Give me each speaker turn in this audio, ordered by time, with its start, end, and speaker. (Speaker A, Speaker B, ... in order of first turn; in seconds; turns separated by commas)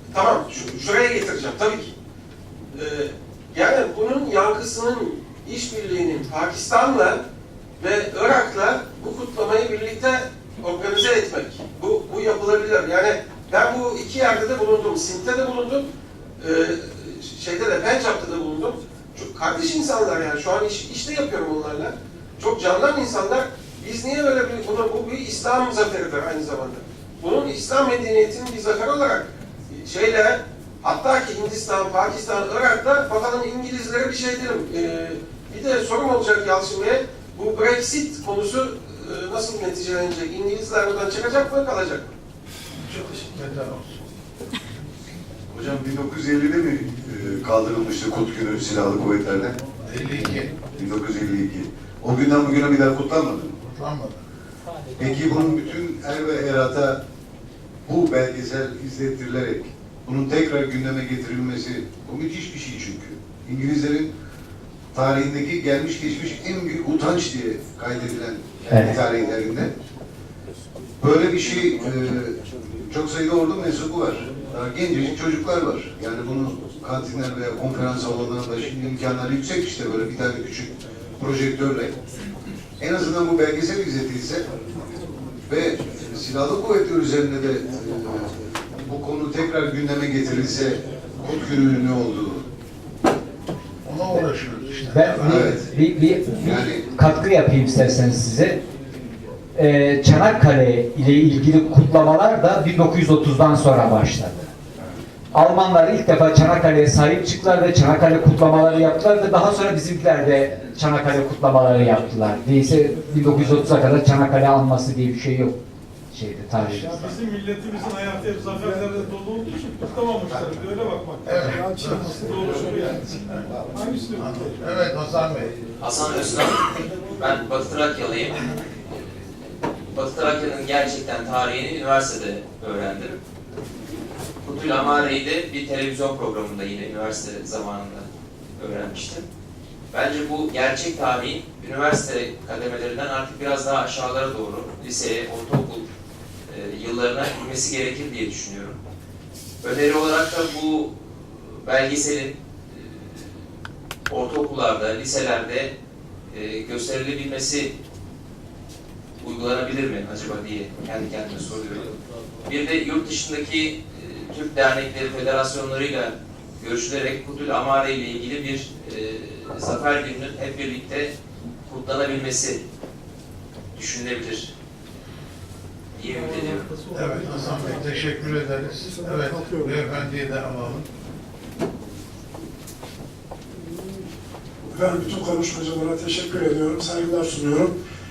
Speaker A: 0.1-1.9, Speaker A: 2.7-7.2, Speaker A: 7.8-15.9, Speaker A: 16.4-42.1, Speaker B: 42.7-44.0, Speaker C: 45.5-49.5, Speaker B: 49.8-50.6, Speaker C: 50.6-53.5, Speaker B: 53.6-54.2, Speaker D: 54.6-55.6, Speaker C: 55.0-57.0, Speaker C: 57.9-64.1, Speaker C: 64.9-69.7, Speaker D: 68.7-69.0, Speaker C: 71.0-81.9, Speaker C: 82.8-84.5, Speaker C: 85.5-88.3, Speaker C: 88.8-92.4, Speaker B: 93.8-95.5, Speaker D: 94.9-98.6, Speaker C: 95.2-95.7, Speaker C: 96.4-96.8, Speaker D: 99.5-104.5, Speaker D: 105.3-115.6, Speaker D: 116.1-117.2, Speaker B: 116.6-117.0, Speaker E: 117.0-121.3, Speaker B: 121.2-123.5, Speaker F: 121.5-122.1, Speaker E: 122.1-123.0, Speaker E: 123.7-124.5, Speaker B: 124.2-125.5, Speaker G: 125.8-129.4, Speaker G: 129.9-133.2, Speaker G: 134.4-139.2, Speaker G: 139.9-145.8, Speaker G: 146.5-148.8, Speaker G: 149.6-153.3, Speaker G: 154.1-155.7, Speaker G: 156.3-157.7, Speaker G: 159.2-171.1, Speaker G: 171.7-172.6, Speaker G: 173.7-174.5, Speaker G: 175.9-176.9, Speaker E: 176.2-178.0, Speaker B: 176.9-180.9, Speaker F: 178.8-179.9, Speaker F: 184.7-187.7